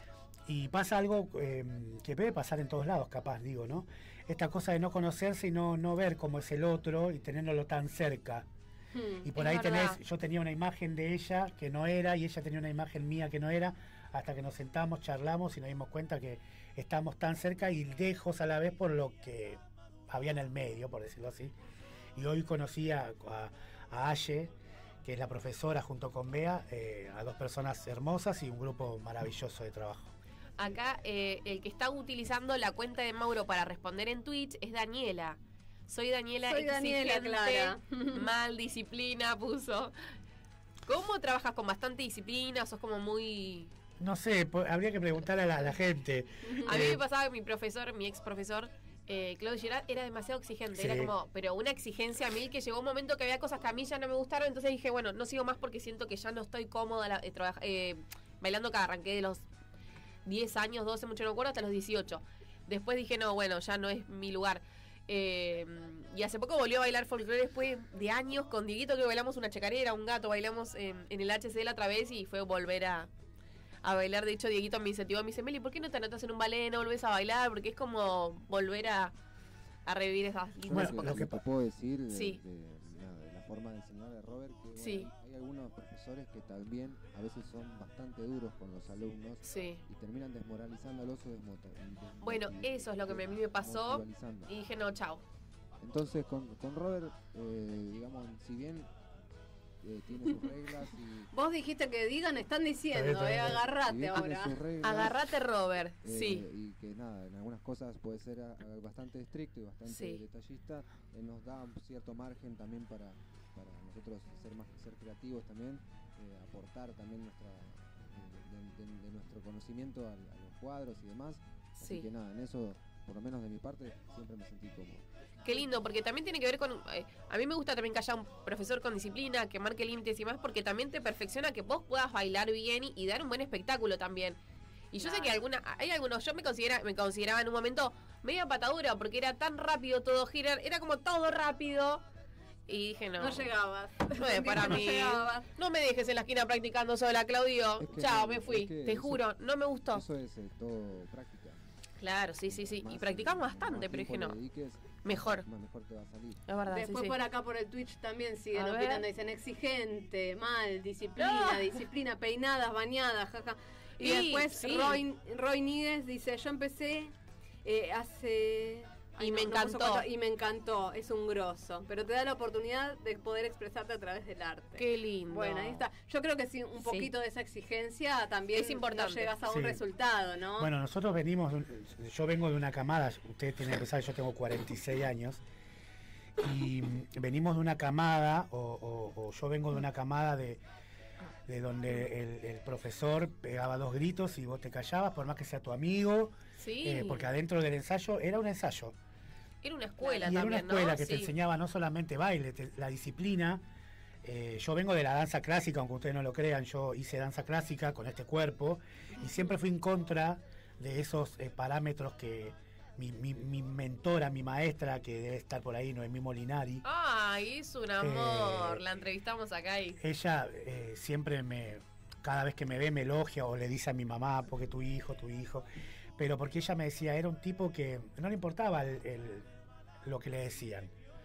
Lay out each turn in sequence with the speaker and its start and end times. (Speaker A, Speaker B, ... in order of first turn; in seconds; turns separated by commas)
Speaker A: 0.5-8.5, Speaker B: 8.9-9.3, Speaker A: 9.2-21.5, Speaker C: 9.4-10.0, Speaker A: 22.2-24.5, Speaker A: 25.0-30.1, Speaker C: 30.6-39.9, Speaker B: 36.5-38.3, Speaker C: 40.9-43.7, Speaker A: 44.0-47.0, Speaker B: 46.5-46.9, Speaker C: 46.6-59.5, Speaker A: 50.8-51.1, Speaker C: 60.3-73.1, Speaker C: 73.8-79.1, Speaker C: 79.9-81.2, Speaker A: 80.7-81.4, Speaker D: 80.7-94.5, Speaker C: 82.1-82.4, Speaker C: 84.8-85.1, Speaker C: 89.4-89.8, Speaker C: 92.2-95.2, Speaker D: 95.8-98.9, Speaker D: 99.8-101.3, Speaker B: 101.3-104.6, Speaker A: 102.9-103.7, Speaker D: 103.8-105.3, Speaker C: 104.8-106.5, Speaker D: 106.0-125.0, Speaker C: 109.9-110.2, Speaker C: 121.8-122.1, Speaker C: 125.4-134.4, Speaker C: 134.9-142.0, Speaker B: 135.0-135.4, Speaker C: 142.7-143.5, Speaker B: 143.2-145.5, Speaker C: 144.2-150.0, Speaker D: 147.8-149.2, Speaker D: 149.9-151.7, Speaker C: 152.0-154.4, Speaker D: 152.5-156.4, Speaker C: 155.0-155.4, Speaker C: 156.5-157.2, Speaker B: 156.7-167.1, Speaker C: 158.5-159.0, Speaker C: 161.2-161.8, Speaker C: 164.0-165.0, Speaker B: 167.7-180.7, Speaker C: 169.2-170.1, Speaker C: 174.8-175.8, Speaker C: 176.8-177.1, Speaker C: 178.5-179.3, Speaker A: 179.5-179.8, Speaker A: 180.6-185.4, Speaker A: 186.4-190.6, Speaker A: 191.5-198.9, Speaker C: 196.6-197.3, Speaker C: 199.6-201.3, Speaker A: 200.2-203.6, Speaker A: 204.2-216.8, Speaker C: 216.8-220.0, Speaker A: 218.0-218.8, Speaker A: 220.0-225.7, Speaker A: 226.2-229.5, Speaker A: 230.1-230.9